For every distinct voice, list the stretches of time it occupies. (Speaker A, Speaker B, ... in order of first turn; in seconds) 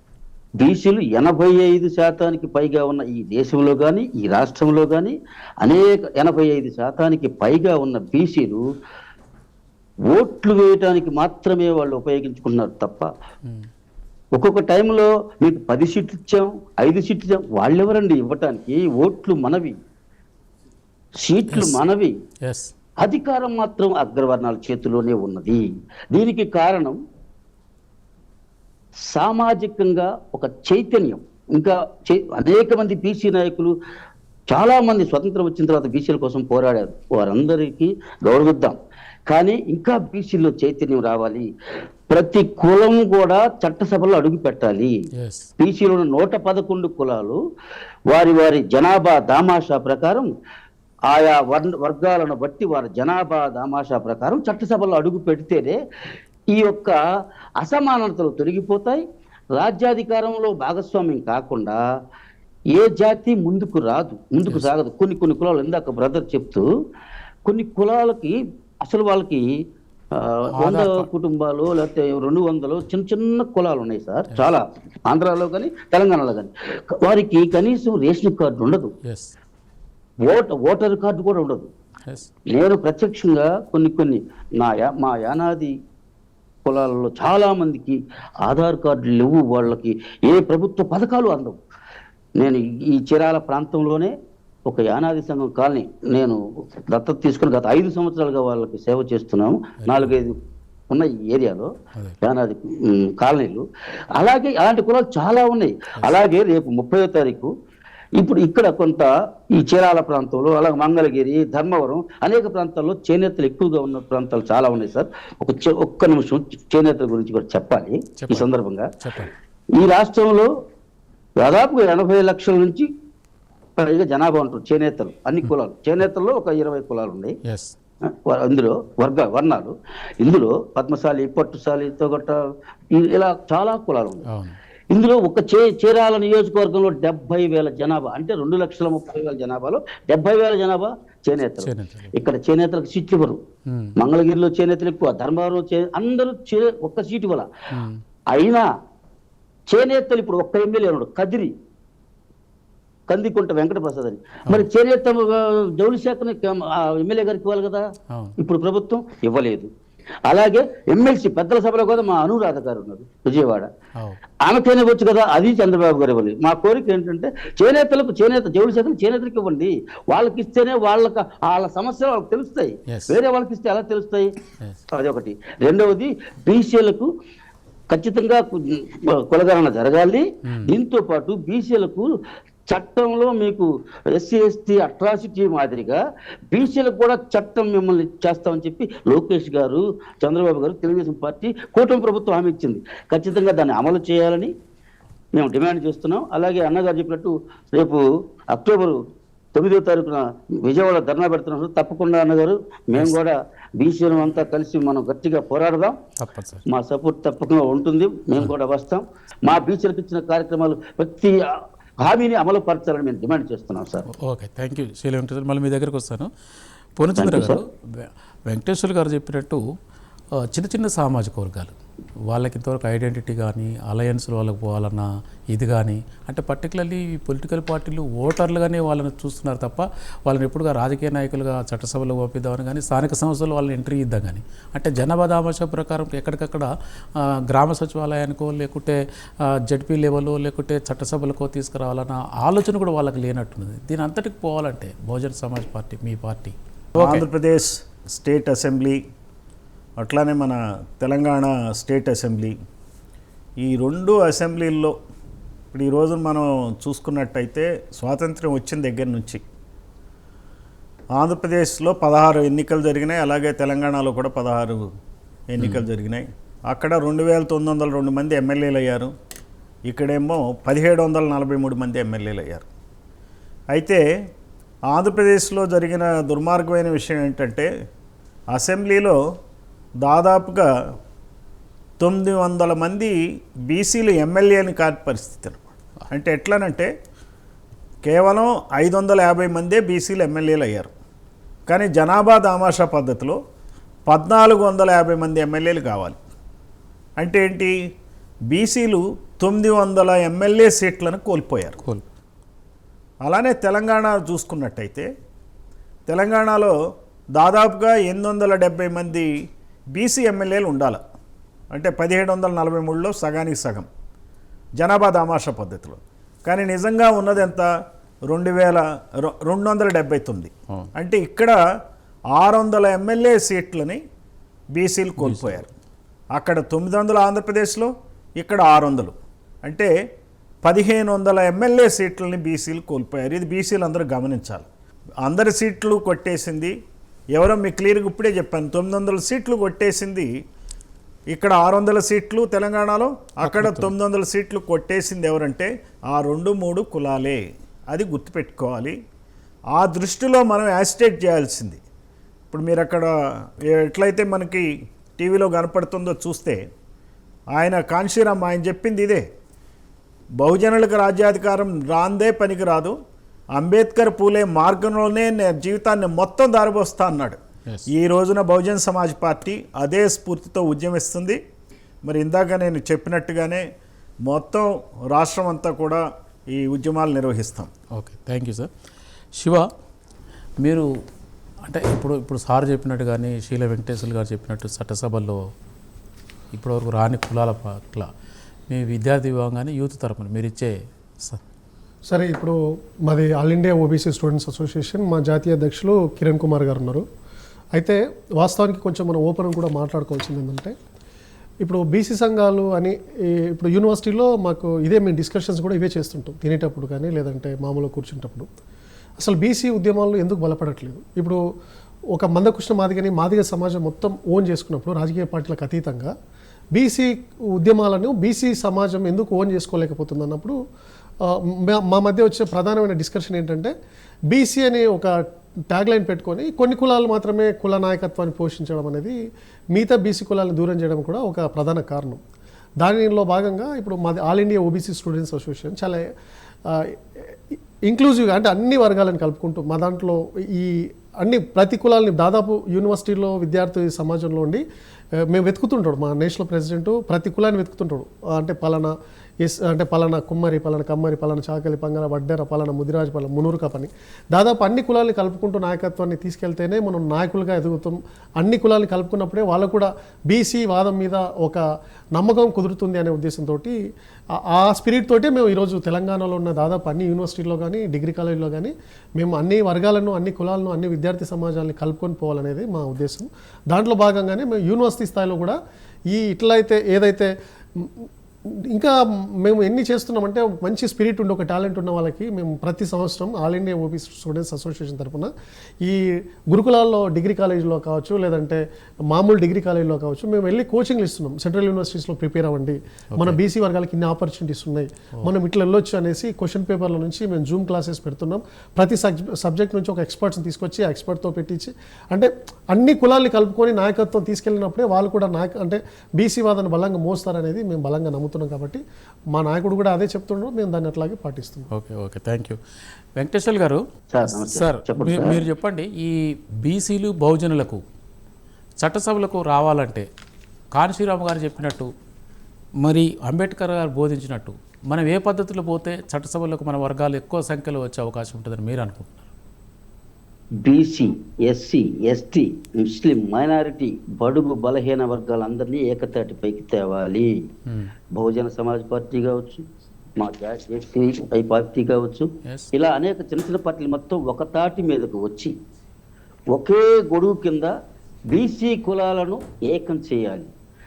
Speaker A: 0.6-8.6, 10.1-13.1, 14.3-19.8, 21.1-22.1, 23.0-27.0, 29.1-33.7, 34.5-38.8, 39.3-41.5, 42.1-45.0, 45.6-47.4, 48.1-50.3, 51.1-55.8, 56.5-57.0, 57.6-59.0, 59.5-61.8, 62.7-66.7, 67.4-69.6, 70.1-78.9, 80.2-81.7, 82.5-85.7, 86.6-91.6, 92.4-94.1, 94.7-100.4, 100.9-101.7, 102.2-107.5, 108.2-118.9, 119.7-120.5, 121.4-122.9, 123.8-127.4, 128.0-134.2, 134.9-143.4, 144.0-147.5, 148.3-148.7, 149.7-151.5, 153.1-159.7, 160.2-163.7, 164.4-174.3, 174.9-177.1, 177.9-182.1, 182.7-194.5, 195.3-199.0, 199.5-206.0, 206.7-211.5, 212.0-214.1, 217.2-217.6, 514.1-515.4, 530.6-537.4, 538.1-539.6, 540.2-545.5, 546.5-547.7, 548.3-550.5
Speaker B: 21.5-21.8, 22.4-22.7, 45.1-45.5, 70.6-71.1, 79.0-79.3, 99.8-100.1, 118.2-118.5, 119.0-119.3, 127.4-127.7, 134.2-134.6, 141.6-142.1, 143.7-144.0, 147.7-148.0, 158.1-158.4, 172.9-173.2, 180.4-180.7, 206.2-206.7, 214.1-216.3, 216.9-219.6, 220.4-221.7, 222.3-247.2, 325.2-325.7, 343.4-343.9, 377.9-378.7, 379.4-379.7, 380.6-380.9, 381.6-385.4, 386.5-388.1, 388.7-391.4, 511.7-512.6, 513.1-517.8, 518.8-520.1, 520.7-521.9, 522.8-529.3, 537.7-537.9, 542.4-542.7
Speaker C: 247.0-249.0, 250.0-252.6, 253.6-254.9, 255.7-259.4, 261.1-264.9, 265.5-269.1, 269.9-272.7, 273.7-274.0, 274.9-277.7, 278.5-279.2, 280.0-280.9, 282.0-286.9, 288.0-290.9, 291.7-293.4, 294.1-296.2, 297.2-297.8, 298.5-301.8, 303.2-305.1, 306.1-306.8, 307.3-311.0, 311.7-313.9, 314.8-317.7, 318.3-321.6, 322.3-324.0, 324.7-325.6, 326.3-329.9, 330.6-334.7, 335.2-336.8, 337.3-340.4, 341.3-349.0, 349.7-351.8, 352.5-353.1, 353.6-356.6, 357.5-359.3, 360.4-362.9, 363.5-371.4, 372.0-373.7, 374.2-377.7
Speaker D: 392.1-397.0, 397.7-400.7, 401.6-408.5, 409.2-411.4, 412.1-416.1, 416.7-420.6, 421.2-423.7, 424.3-429.1, 429.7-432.2, 432.8-436.0, 436.6-444.6, 445.2-461.6, 462.1-463.8, 464.4-475.6, 476.1-508.8, 509.3-511.7